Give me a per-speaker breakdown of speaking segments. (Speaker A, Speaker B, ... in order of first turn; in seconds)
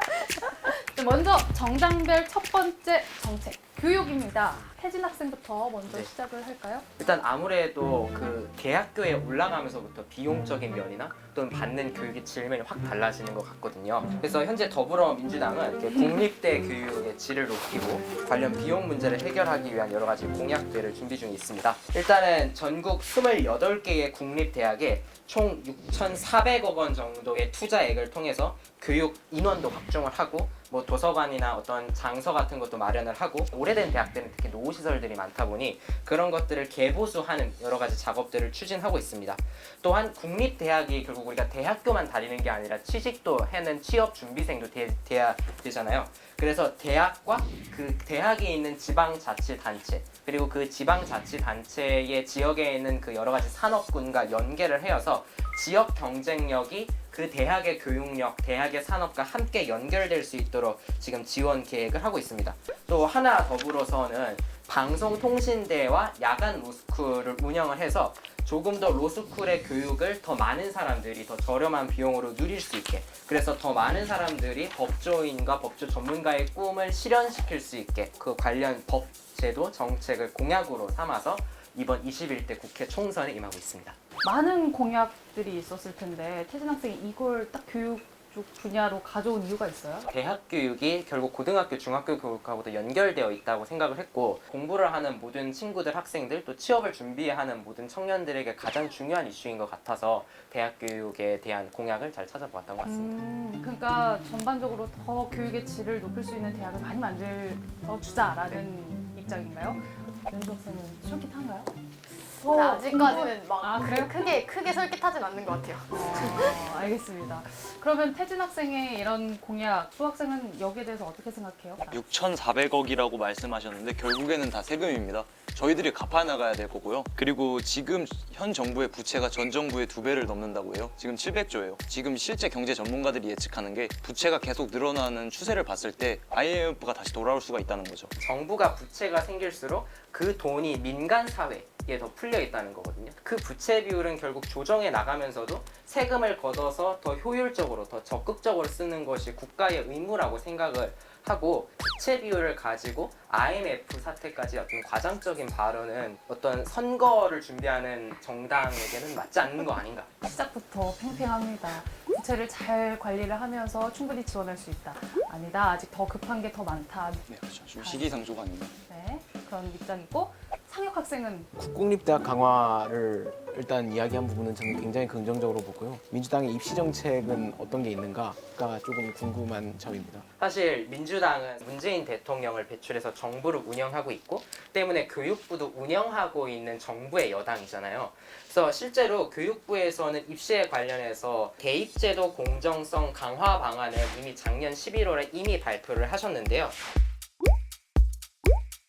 Speaker A: 0.4-6.8, 84.2-90.1, 102.8-111.8, 112.4-114.4, 115.9-122.0, 160.2-168.1, 168.8-171.5
Speaker B: 7.0-84.0, 90.1-103.2, 138.2-160.1, 180.4-196.8
Speaker C: 112.4-116.8
Speaker D: 121.9-138.1, 167.3-168.7
Speaker E: 171.5-180.3